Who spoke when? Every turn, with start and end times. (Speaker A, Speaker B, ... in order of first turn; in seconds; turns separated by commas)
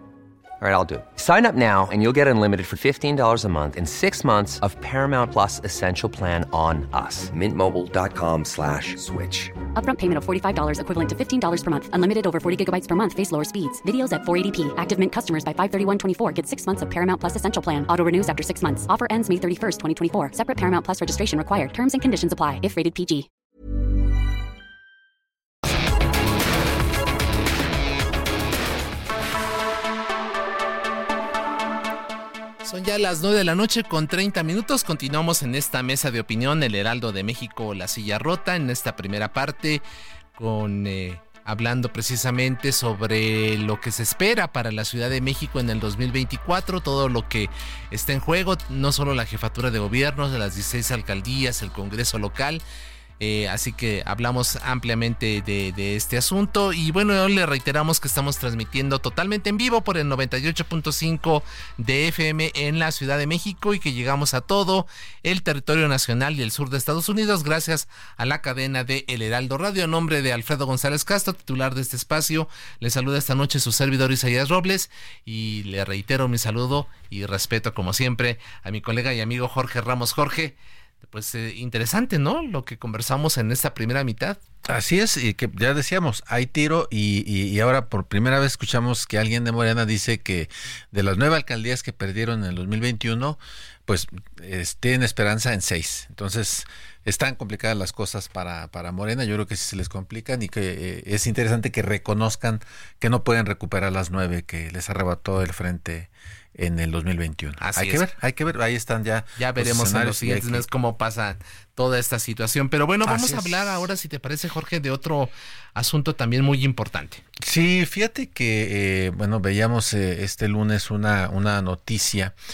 Speaker A: 0.6-9.6, Speaker B: 9.7-23.3, Speaker C: 32.6-39.8, Speaker C: 40.4-52.6, Speaker C: 53.2-84.4, Speaker D: 84.7-110.7, Speaker C: 107.6-108.1, Speaker C: 109.4-117.2, Speaker D: 113.0-113.9, Speaker D: 117.4-122.3